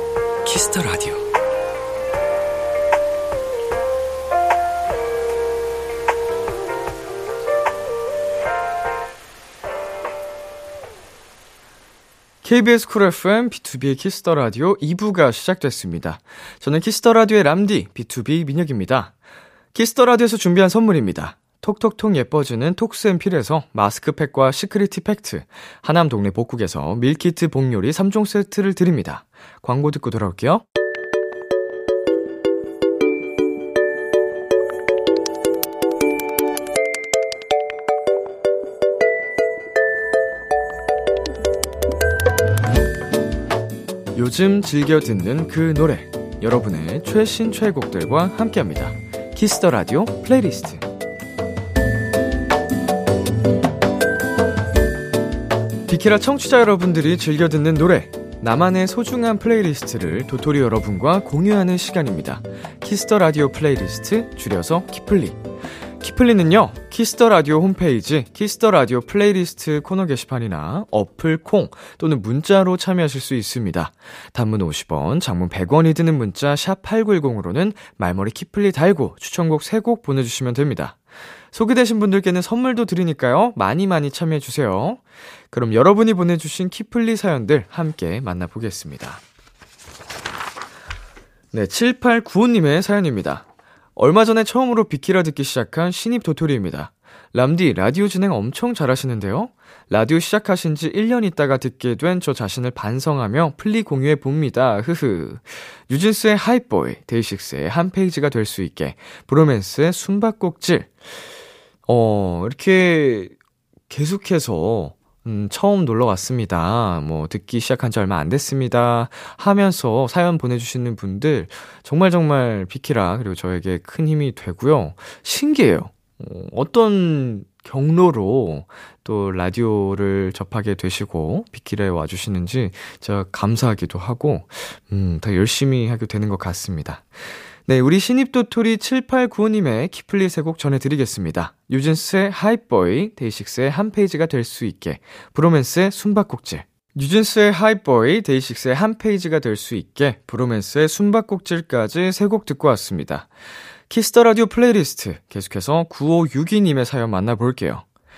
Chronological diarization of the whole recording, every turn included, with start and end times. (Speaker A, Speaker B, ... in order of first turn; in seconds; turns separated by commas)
Speaker A: 0.4-1.2, Speaker A: 12.4-19.1, Speaker A: 19.7-30.6, Speaker A: 44.1-50.9, Speaker A: 55.9-65.4, Speaker A: 66.0-81.0, Speaker A: 81.5-89.2, Speaker A: 91.5-93.4, Speaker A: 94.0-110.9, Speaker A: 111.9-113.3, Speaker A: 113.9-137.1, Speaker A: 137.7-153.3, Speaker A: 153.9-157.8